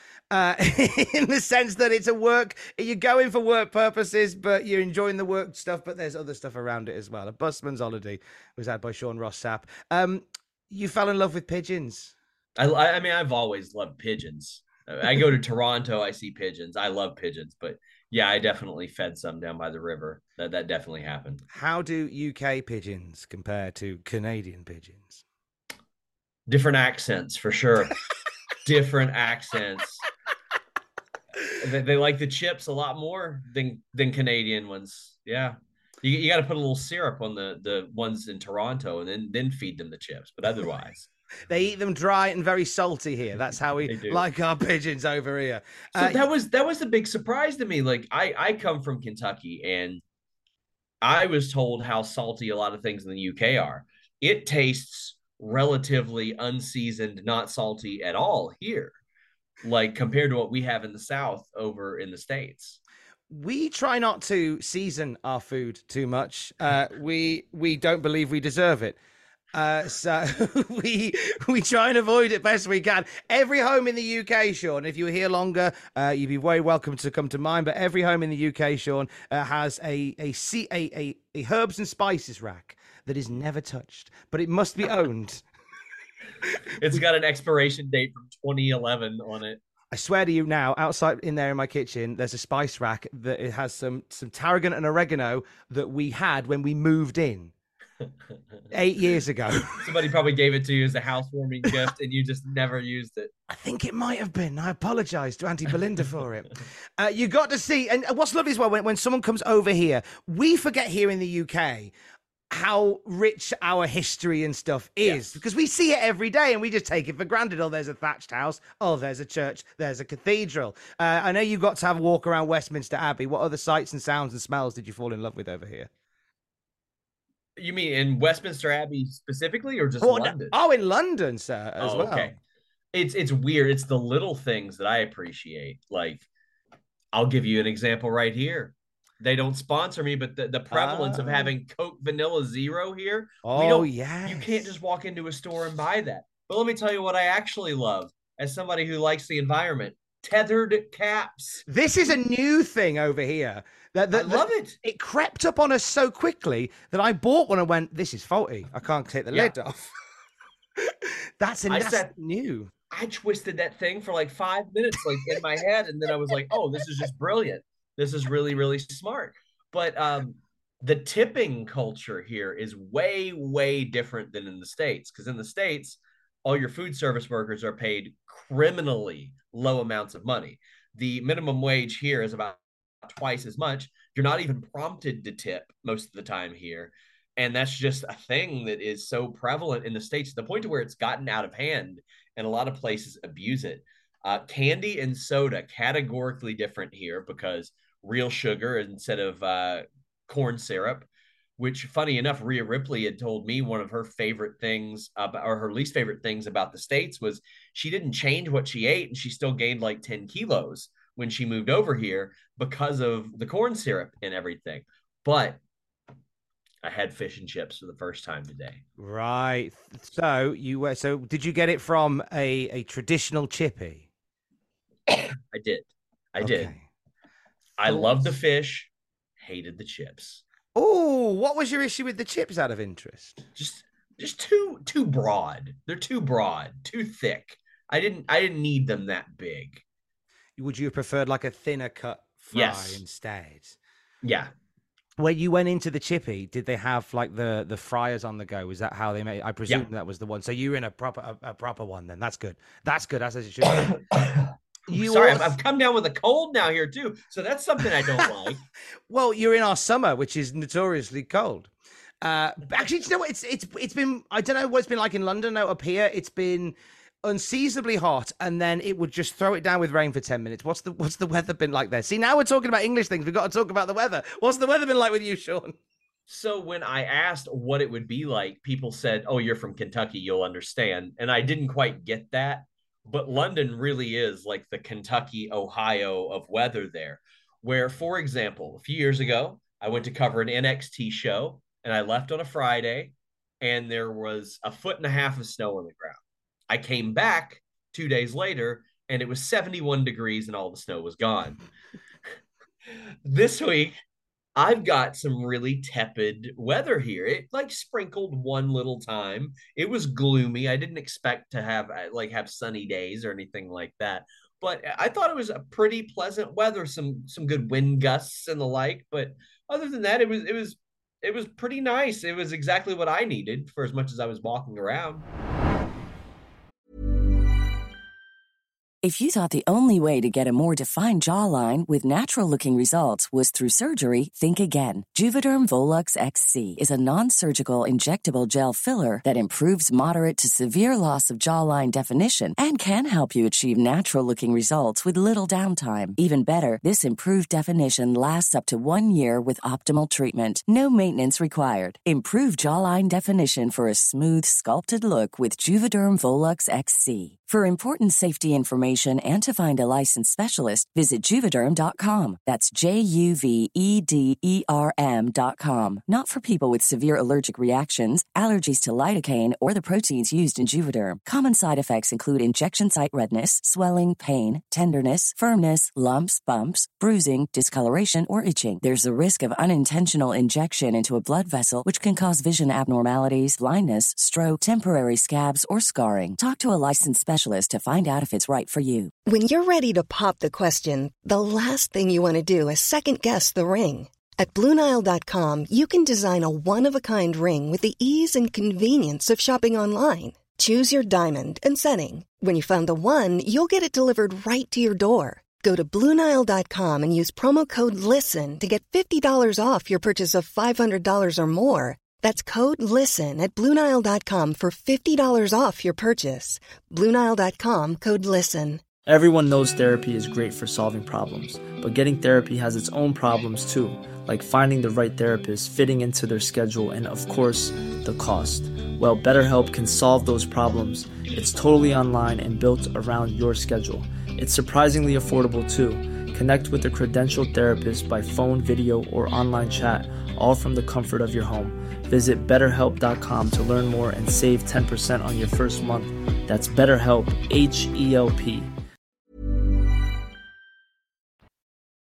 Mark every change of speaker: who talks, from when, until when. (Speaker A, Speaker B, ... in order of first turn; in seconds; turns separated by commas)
Speaker A: 0.3-12.2, Speaker B: 12.6-21.4, Speaker A: 21.5-25.2, Speaker B: 26.5-28.0, Speaker B: 28.6-30.1, Speaker B: 31.6-41.1, Speaker A: 41.5-46.3, Speaker B: 43.9-44.2, Speaker B: 46.0-50.0, Speaker B: 51.0-58.9, Speaker B: 59.6-62.8, Speaker A: 63.3-69.0, Speaker A: 69.5-85.4, Speaker B: 86.8-89.6, Speaker A: 89.9-97.5, Speaker A: 98.7-99.8, Speaker B: 99.8-103.3, Speaker A: 103.5-111.9, Speaker A: 112.5-125.9, Speaker B: 115.0-115.4, Speaker B: 127.6-130.6, Speaker A: 130.0-132.3, Speaker B: 131.8-132.3, Speaker B: 132.9-136.3, Speaker B: 137.1-151.7, Speaker A: 140.7-141.5, Speaker A: 143.4-144.7, Speaker A: 151.7-159.9, Speaker B: 154.1-154.8, Speaker A: 161.4-162.7, Speaker B: 161.7-162.1, Speaker B: 162.9-201.1, Speaker B: 201.6-215.6, Speaker B: 216.8-218.8, Speaker A: 219.0-224.1, Speaker B: 225.5-226.7, Speaker A: 226.4-226.8, Speaker B: 227.8-230.4, Speaker A: 227.8-228.2, Speaker A: 230.8-233.4, Speaker B: 233.6-239.8, Speaker A: 240.6-243.8, Speaker B: 242.5-243.0, Speaker B: 244.2-244.5, Speaker A: 245.2-254.0, Speaker B: 254.2-258.6, Speaker A: 254.9-255.6, Speaker A: 259.1-261.7, Speaker A: 262.2-275.8, Speaker B: 276.3-296.2, Speaker B: 296.7-301.6, Speaker B: 303.3-304.0, Speaker B: 304.6-325.3, Speaker C: 329.0-389.1, Speaker D: 389.3-418.8, Speaker E: 419.1-448.7